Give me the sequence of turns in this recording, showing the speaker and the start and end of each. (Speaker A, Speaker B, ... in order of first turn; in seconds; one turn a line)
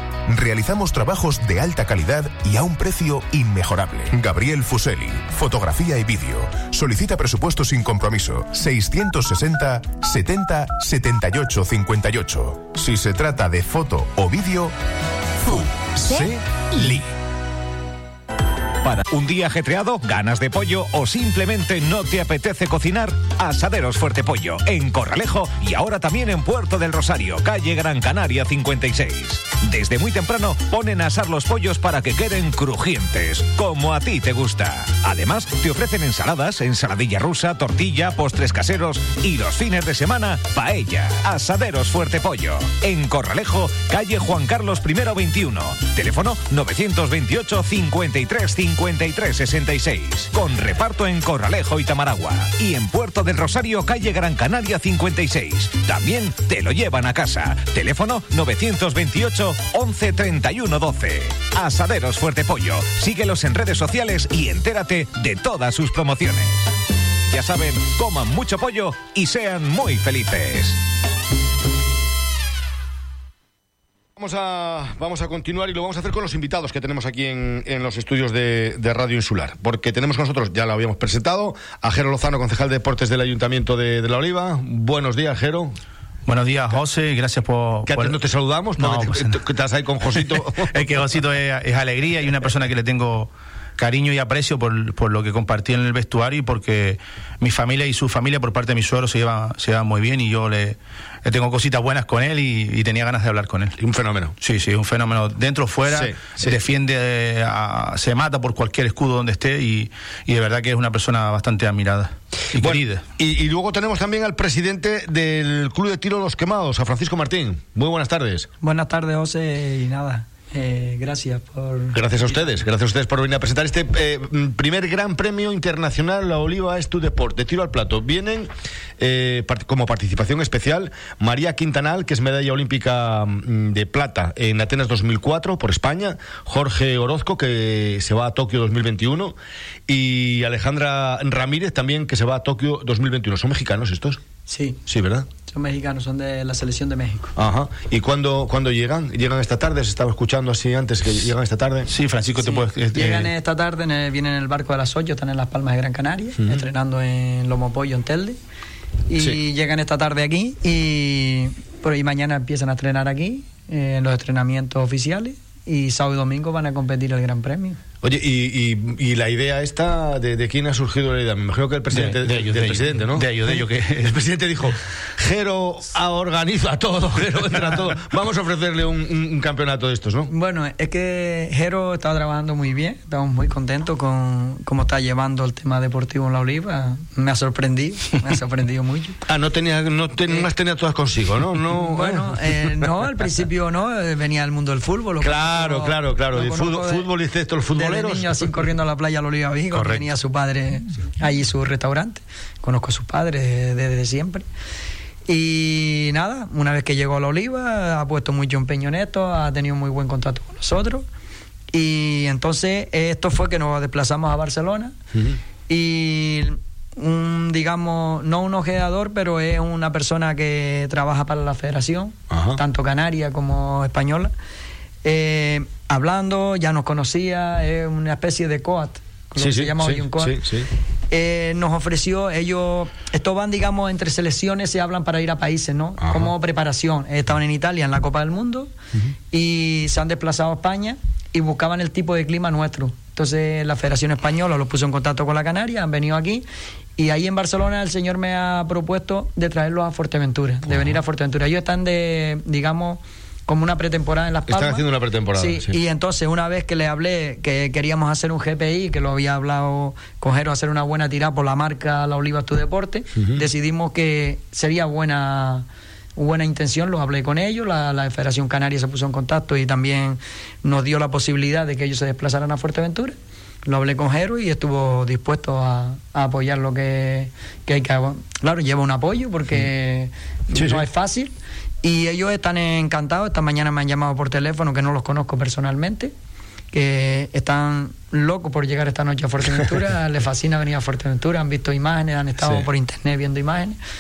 Speaker A: 0.3-14.8
Speaker A: 15.4-17.0
Speaker B: 18.8-66.7
Speaker B: 67.3-70.8
Speaker C: 74.2-85.8
Speaker D: 86.3-88.1
Speaker C: 87.9-90.9
Speaker D: 88.8-89.4
Speaker D: 90.7-103.7
Speaker C: 103.8-104.3
Speaker D: 104.4-113.0
Speaker C: 105.9-106.6
Speaker C: 112.5-118.5
Speaker E: 118.6-122.5
Speaker C: 121.9-139.4
Speaker C: 139.9-144.2
Speaker E: 144.5-147.3
Speaker C: 144.9-145.3
Speaker C: 147.4-151.9
Speaker D: 151.9-153.3
Speaker E: 152.4-158.4
Speaker E: 159.1-167.8
Speaker C: 168.0-180.3
Speaker D: 171.9-174.1
Speaker E: 180.3-189.2
Speaker C: 189.3-192.8
Speaker E: 191.7-197.1
Speaker C: 195.2-198.5
Speaker E: 197.7-204.4
Speaker C: 199.7-200.1
Speaker E: 205.3-211.1
Speaker E: 211.7-214.9
Speaker C: 215.1-215.4
Speaker E: 215.7-224.3
Speaker C: 222.3-222.6
Speaker E: 225.0-230.4
Speaker C: 229.4-230.7
Speaker E: 231.1-238.7
Speaker C: 236.0-236.3
Speaker E: 239.3-246.5
Speaker E: 247.0-281.3
Speaker C: 254.5-255.8
Speaker C: 263.1-263.4
Speaker C: 280.5-280.8
Speaker E: 281.8-286.1
Speaker E: 286.7-293.8
Speaker C: 292.4-292.7